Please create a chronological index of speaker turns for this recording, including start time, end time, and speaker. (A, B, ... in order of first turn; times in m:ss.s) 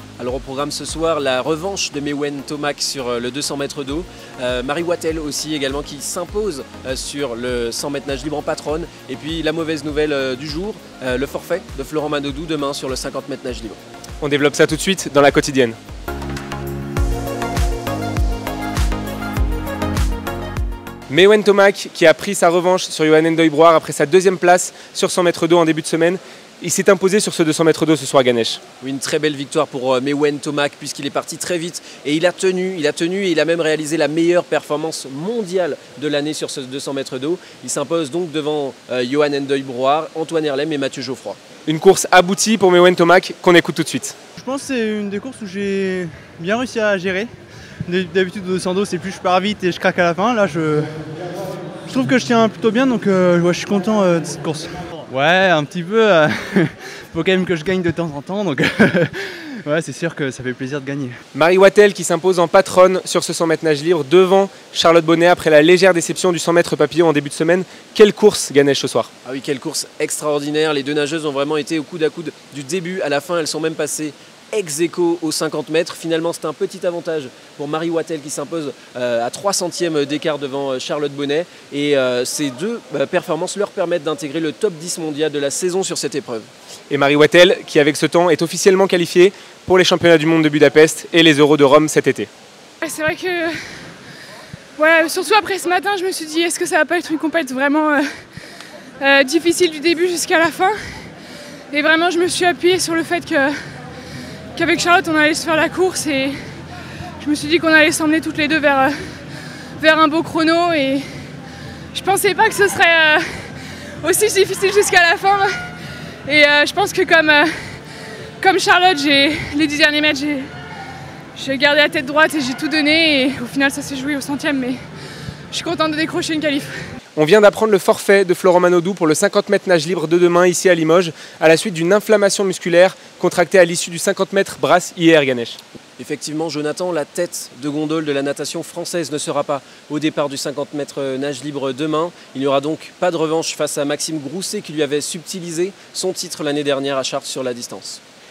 0:00.2-0:13.8 A
0:14.2-0:15.8 B
0:21.1-0:28.6 B
0:28.8-0:41.4 A
0:41.7-0:44.2 B
0:44.4-0:47.3 C
0:47.9-0:50.9 C
0:51.9-1:01.2 C
1:01.3-1:09.1 B
1:09.3-1:26.5 A
1:26.9-1:32.3 B
1:32.8-1:33.6 D
1:34.8-1:38.1 D
1:39.0-1:40.8 D
1:41.7-1:43.6 D
1:44.6-1:46.4 D
1:47.2-1:49.1 D
1:49.8-1:51.1 D
1:51.9-1:55.7 D
1:56.3-1:57.8 D
1:58.4-2:00.5 D
2:01.4-2:04.8 D
2:05.5-2:06.8 D
2:07.2-2:15.6 B
2:16.0-2:28.0 A